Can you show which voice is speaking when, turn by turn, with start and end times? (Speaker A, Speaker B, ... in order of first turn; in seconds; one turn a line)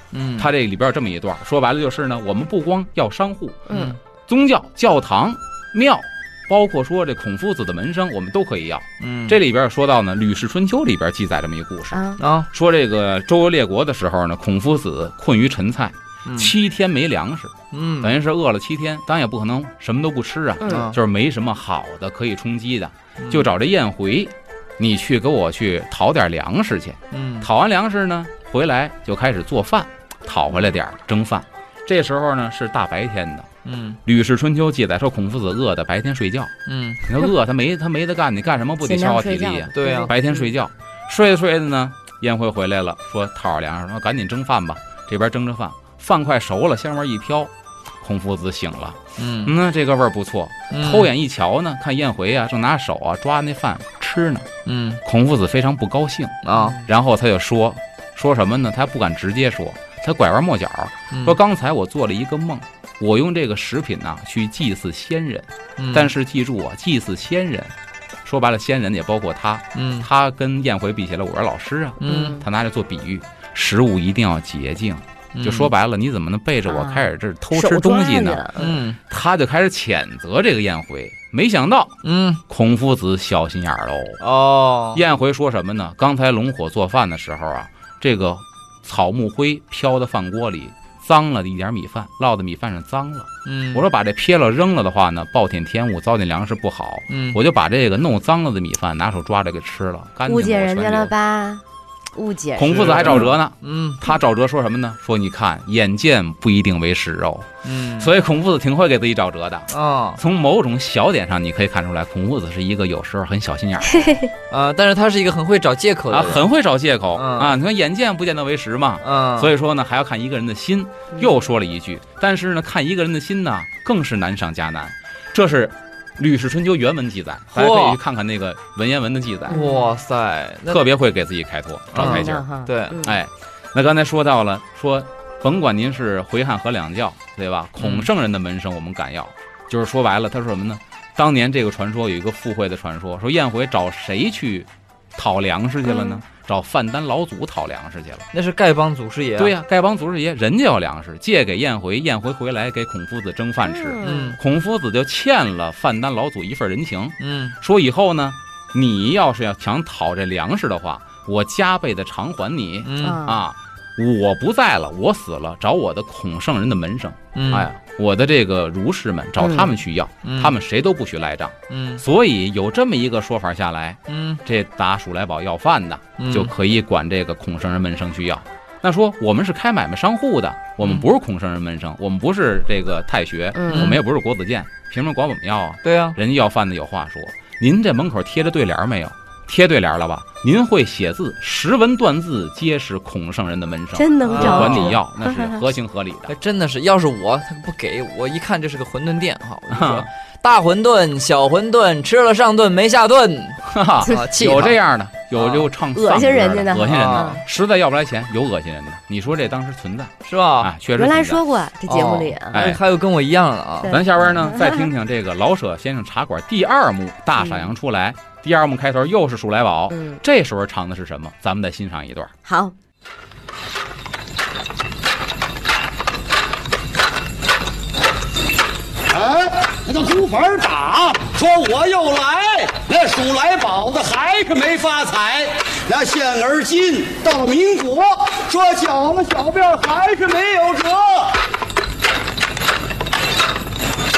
Speaker A: 0.1-0.5
Speaker B: 0.4-3.7
Speaker C: 3.7-3.9
Speaker A: 3.7-4.0
Speaker B: 4.3-33.5
Speaker A: 9.0-9.4
Speaker C: 11.9-12.2
Speaker A: 12.2-12.5
Speaker A: 16.3-16.5
Speaker A: 17.7-18.1
Speaker C: 20.6-20.9
Speaker A: 20.7-21.0
Speaker A: 23.2-23.5
Speaker A: 27.1-27.5
Speaker A: 33.6-34.0
Speaker B: 34.0-36.5
Speaker A: 36.7-37.0
Speaker B: 37.0-47.5
Speaker C: 38.8-40.1
Speaker A: 39.7-40.1
Speaker B: 48.0-54.5
Speaker A: 49.2-49.5
Speaker A: 50.7-51.1
Speaker A: 54.7-55.0
Speaker B: 55.0-67.7
Speaker A: 56.4-56.8
Speaker A: 61.1-61.4
Speaker A: 65.8-66.1
Speaker B: 68.2-82.0
Speaker A: 69.8-70.1
Speaker A: 72.0-72.4
Speaker C: 72.1-72.4
Speaker A: 75.3-75.7
Speaker C: 76.7-78.7
Speaker A: 78.6-79.0
Speaker A: 82.0-82.4
Speaker B: 82.5-84.2
Speaker A: 84.2-85.0
Speaker B: 85.0-101.1
Speaker A: 93.5-93.8
Speaker A: 97.1-97.4
Speaker C: 100.3-101.6
Speaker C: 102.2-103.1
Speaker B: 102.6-114.1
Speaker A: 102.6-104.0
Speaker A: 107.6-108.1
Speaker A: 109.7-110.2
Speaker C: 114.0-114.3
Speaker A: 114.5-116.5
Speaker B: 116.1-129.6
Speaker A: 117.1-117.5
Speaker A: 119.0-119.5
Speaker A: 127.5-128.0
Speaker C: 129.5-129.8
Speaker A: 129.5-130.8
Speaker B: 130.7-132.4
Speaker A: 131.9-133.0
Speaker C: 132.0-133.2
Speaker B: 133.0-148.3
Speaker A: 137.8-138.1
Speaker A: 148.3-149.5
Speaker B: 149.4-196.3
Speaker C: 153.7-154.3
Speaker A: 154.0-154.4
Speaker A: 157.2-157.6
Speaker A: 162.8-163.2
Speaker C: 163.0-163.4
Speaker A: 167.3-167.7
Speaker C: 169.4-169.7
Speaker A: 170.2-170.6
Speaker A: 171.7-172.0
Speaker A: 174.1-174.4
Speaker A: 176.2-176.5
Speaker C: 183.6-184.0
Speaker A: 183.7-184.0
Speaker A: 185.8-186.2
Speaker C: 194.0-195.6
Speaker A: 194.2-195.0
Speaker A: 196.3-204.8
Speaker B: 199.7-200.1
Speaker B: 203.6-211.4
Speaker A: 205.3-205.7
Speaker C: 205.9-207.4
Speaker A: 206.9-207.4
Speaker A: 210.2-210.7
Speaker C: 211.0-212.6
Speaker A: 211.9-214.4
Speaker B: 212.5-212.8
Speaker C: 213.8-214.8
Speaker B: 213.9-222.3
Speaker C: 219.9-220.2
Speaker C: 222.4-222.7
Speaker D: 229.1-241.4